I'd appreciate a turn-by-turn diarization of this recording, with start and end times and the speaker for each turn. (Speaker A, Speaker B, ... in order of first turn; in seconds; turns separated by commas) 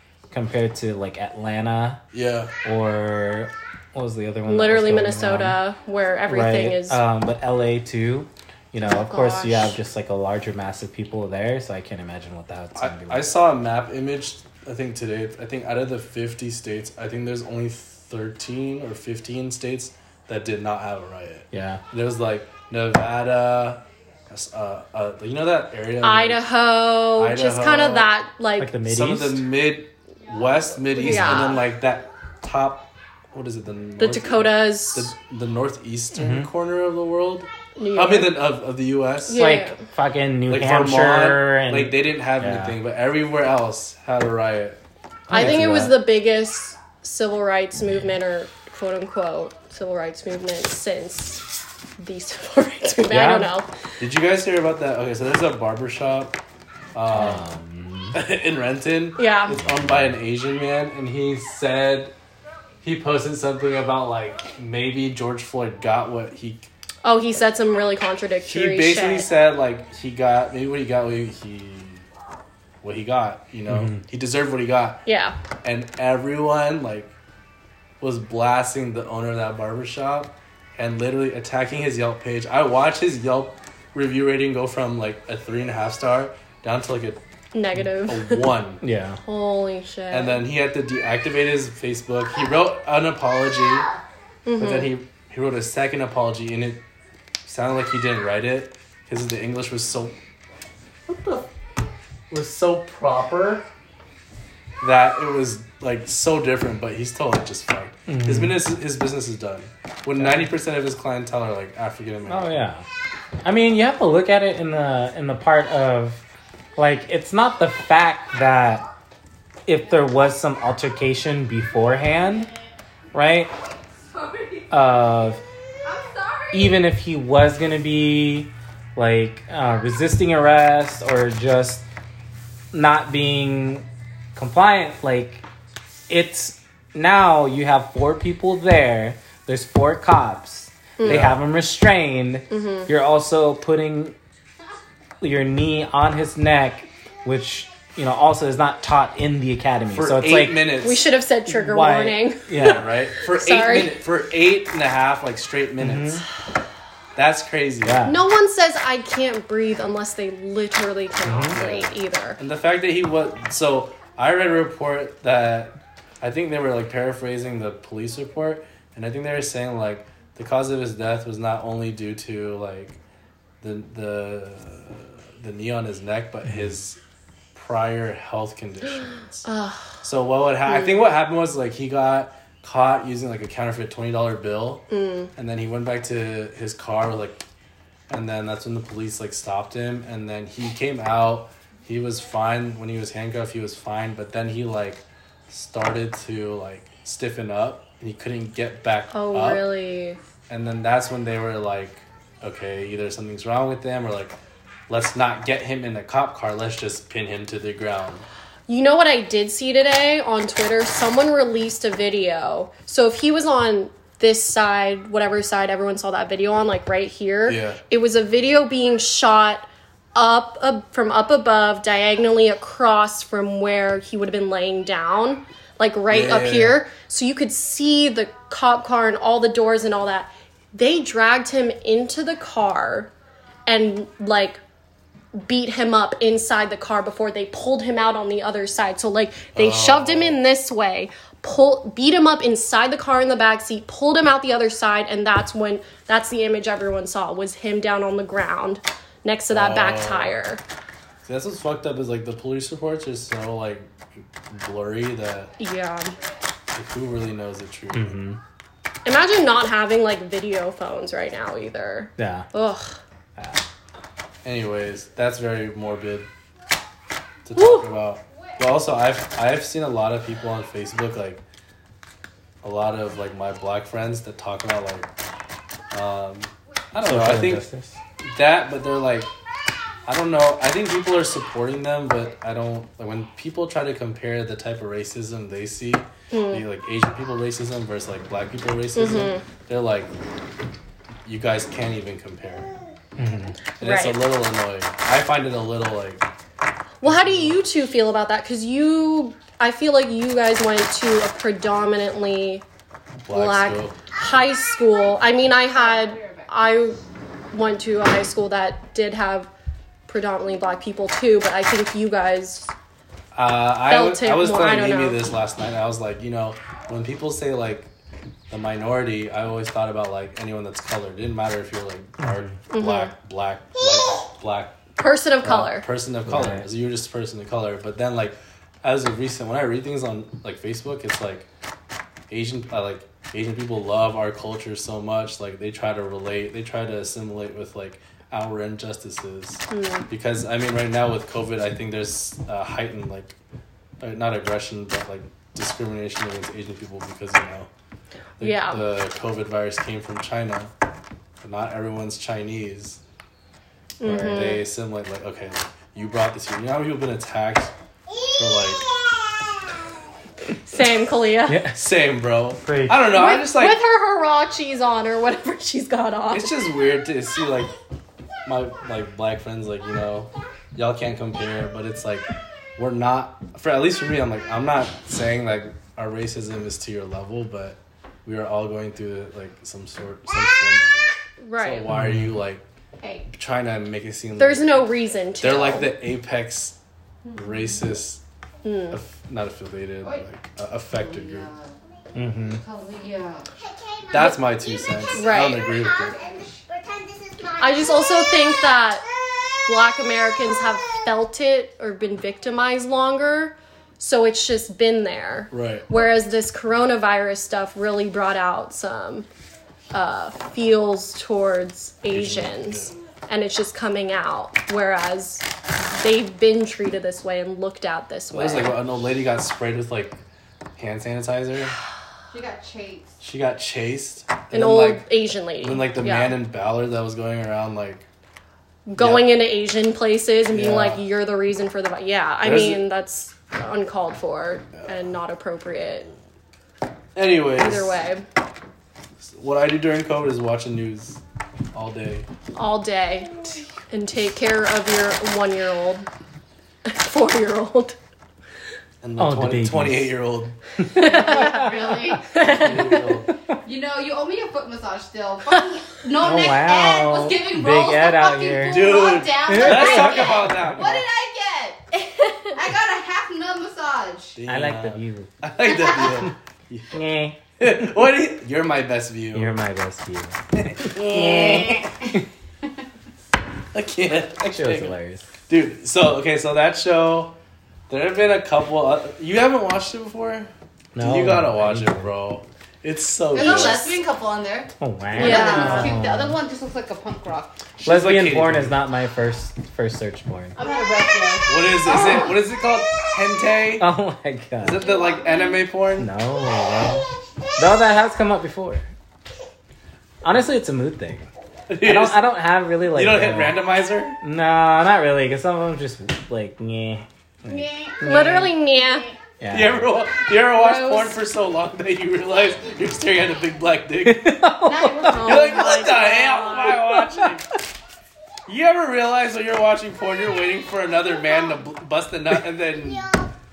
Speaker A: 0.3-2.0, Speaker B: 2.1-2.5, Speaker A: 2.6-5.6, Speaker C: 4.5-7.0, Speaker A: 6.3-13.3, Speaker C: 8.8-9.7, Speaker B: 12.8-26.4, Speaker A: 21.5-21.8, Speaker C: 26.0-28.8, Speaker B: 27.2-28.1, Speaker A: 28.6-29.5, Speaker B: 28.9-39.5, Speaker C: 30.9-31.7, Speaker A: 31.1-31.5, Speaker C: 34.0-35.1, Speaker A: 36.1-36.5, Speaker C: 37.8-38.5, Speaker C: 39.3-39.8, Speaker A: 39.4-42.8, Speaker B: 40.5-44.8, Speaker A: 45.3-46.0, Speaker C: 45.3-51.5, Speaker B: 45.3-46.0, Speaker C: 52.0-53.7, Speaker A: 53.1-53.5, Speaker B: 54.0-56.4, Speaker B: 56.9-57.5, Speaker A: 57.1-58.2, Speaker B: 58.1-62.1, Speaker C: 59.2-59.6, Speaker A: 59.6-60.1, Speaker B: 62.8-66.7, Speaker C: 67.0-69.3, Speaker B: 68.5-72.0, Speaker B: 72.8-75.0, Speaker A: 73.7-74.0, Speaker C: 75.1-75.4, Speaker B: 75.6-77.1, Speaker B: 78.0-87.2, Speaker C: 87.5-88.5, Speaker B: 88.1-88.8, Speaker A: 88.8-89.2, Speaker C: 89.2-90.5, Speaker B: 90.1-93.9, Speaker C: 94.5-94.9, Speaker B: 94.6-96.8, Speaker B: 97.5-100.2, Speaker B: 101.1-101.5, Speaker B: 102.3-103.7, Speaker B: 104.8-112.6, Speaker A: 108.1-108.6, Speaker A: 110.2-110.5, Speaker A: 112.3-112.9, Speaker A: 113.4-116.2, Speaker A: 116.8-118.8, Speaker A: 119.7-122.5, Speaker A: 123.1-123.5, Speaker D: 124.1-124.7, Speaker A: 124.7-125.4, Speaker D: 125.8-126.8, Speaker A: 126.5-131.8, Speaker A: 132.7-135.4, Speaker A: 136.1-144.2, Speaker C: 141.0-141.3, Speaker B: 141.0-141.4, Speaker C: 142.5-142.9, Speaker A: 145.2-150.7, Speaker B: 149.9-151.1, Speaker C: 150.8-154.0, Speaker A: 151.5-152.9, Speaker B: 152.6-156.2, Speaker A: 155.8-156.2, Speaker B: 157.2-158.1, Speaker A: 157.8-158.2, Speaker C: 158.1-162.4, Speaker A: 161.2-161.6, Speaker B: 161.5-173.0, Speaker B: 173.6-177.0, Speaker B: 177.6-179.4, Speaker C: 179.4-179.9, Speaker B: 180.0-187.4, Speaker C: 184.9-185.3, Speaker B: 188.1-199.6, Speaker C: 199.1-200.2, Speaker B: 200.5-204.4, Speaker B: 204.9-208.2, Speaker C: 208.7-233.1, Speaker B: 217.5-217.8, Speaker B: 226.1-226.8, Speaker C: 233.7-234.6, Speaker C: 235.3-250.6, Speaker B: 239.6-240.4, Speaker B: 249.5-250.3, Speaker B: 251.2-255.5, Speaker C: 255.6-256.1, Speaker B: 256.7-258.2, Speaker A: 257.9-258.4, Speaker C: 259.1-263.0, Speaker A: 262.2-262.5, Speaker A: 263.4-263.6, Speaker B: 264.4-266.3, Speaker B: 267.4-271.4, Speaker C: 267.6-267.9, Speaker B: 272.6-275.1, Speaker B: 275.9-277.6, Speaker A: 277.0-278.0, Speaker B: 278.2-279.3, Speaker B: 280.1-290.1, Speaker C: 286.3-286.6, Speaker C: 289.0-289.4, Speaker B: 291.2-292.8, Speaker A: 293.2-293.6, Speaker C: 293.8-294.3, Speaker B: 293.8-296.3, Speaker C: 297.0-302.6, Speaker B: 297.0-297.6, Speaker B: 303.2-304.0, Speaker C: 303.3-307.0, Speaker D: 305.7-306.5, Speaker C: 307.5-309.5, Speaker C: 310.1-312.7, Speaker B: 313.4-317.9, Speaker C: 313.9-315.2, Speaker B: 318.5-324.8, Speaker C: 322.7-323.1, Speaker C: 325.0-325.9, Speaker B: 325.4-331.5, Speaker A: 326.3-326.6, Speaker B: 332.3-343.4, Speaker C: 339.7-340.1, Speaker B: 344.0-347.7, Speaker C: 348.4-348.8, Speaker B: 348.4-350.7, Speaker B: 351.4-353.0, Speaker C: 354.0-354.6, Speaker B: 354.1-358.9, Speaker C: 360.6-361.6, Speaker A: 361.5-361.8, Speaker B: 361.7-363.8, Speaker A: 362.6-363.0, Speaker C: 363.1-366.5, Speaker B: 366.3-367.7, Speaker B: 368.4-382.6, Speaker C: 381.4-381.9, Speaker A: 381.9-382.4, Speaker D: 383.0-383.3, Speaker B: 383.3-384.9, Speaker C: 384.4-385.9, Speaker B: 385.4-386.8, Speaker D: 387.3-387.7, Speaker B: 387.4-388.2, Speaker C: 388.6-389.0, Speaker B: 388.9-391.5, Speaker D: 390.9-391.8, Speaker A: 392.1-392.6, Speaker D: 392.6-393.5, Speaker B: 394.1-396.2, Speaker C: 395.1-395.7, Speaker C: 397.6-399.1, Speaker C: 399.6-409.3, Speaker B: 405.5-405.9, Speaker C: 409.9-418.8, Speaker B: 412.1-412.9, Speaker B: 418.3-420.2, Speaker B: 420.8-421.8, Speaker D: 422.3-423.1, Speaker B: 423.2-428.1, Speaker C: 424.5-426.4, Speaker C: 428.9-436.1, Speaker B: 429.0-429.4, Speaker B: 430.5-431.0, Speaker B: 432.4-432.9, Speaker B: 437.1-438.0, Speaker C: 437.6-438.2, Speaker B: 439.3-441.2, Speaker B: 441.7-442.3, Speaker C: 442.6-443.4, Speaker C: 443.9-446.1, Speaker C: 446.9-448.0, Speaker B: 449.0-450.6, Speaker A: 449.2-450.1, Speaker A: 450.8-453.6, Speaker C: 450.9-451.7, Speaker D: 450.9-452.3, Speaker C: 452.2-453.1, Speaker B: 452.4-453.3, Speaker D: 453.6-464.4, Speaker A: 456.2-458.9, Speaker B: 458.7-461.0, Speaker A: 459.5-461.0, Speaker B: 464.4-466.9, Speaker A: 464.5-465.3, Speaker D: 465.9-466.2, Speaker A: 466.9-467.4, Speaker B: 467.6-469.6, Speaker A: 469.3-472.2, Speaker B: 470.5-471.3, Speaker D: 470.9-472.2, Speaker B: 473.7-474.9, Speaker A: 474.5-475.3, Speaker B: 475.5-477.4, Speaker B: 477.9-484.0, Speaker A: 480.9-482.1, Speaker D: 483.3-487.6, Speaker C: 483.4-483.8, Speaker A: 484.8-486.4, Speaker C: 485.2-485.9, Speaker B: 487.8-488.8, Speaker A: 487.9-490.6, Speaker D: 490.6-492.4, Speaker B: 491.5-493.9, Speaker A: 493.8-494.9, Speaker B: 494.6-496.1, Speaker D: 494.8-495.6, Speaker A: 496.0-498.9, Speaker A: 500.2-501.3, Speaker B: 501.7-502.2, Speaker A: 501.8-503.6, Speaker B: 502.9-504.2, Speaker A: 504.2-508.6, Speaker D: 507.5-509.2, Speaker C: 508.0-509.1, Speaker A: 509.4-509.9, Speaker B: 509.5-514.4, Speaker D: 510.6-511.2, Speaker A: 514.0-515.3, Speaker D: 514.6-516.8, Speaker C: 515.1-516.5, Speaker B: 515.1-517.5, Speaker A: 517.1-517.4, Speaker B: 518.5-523.1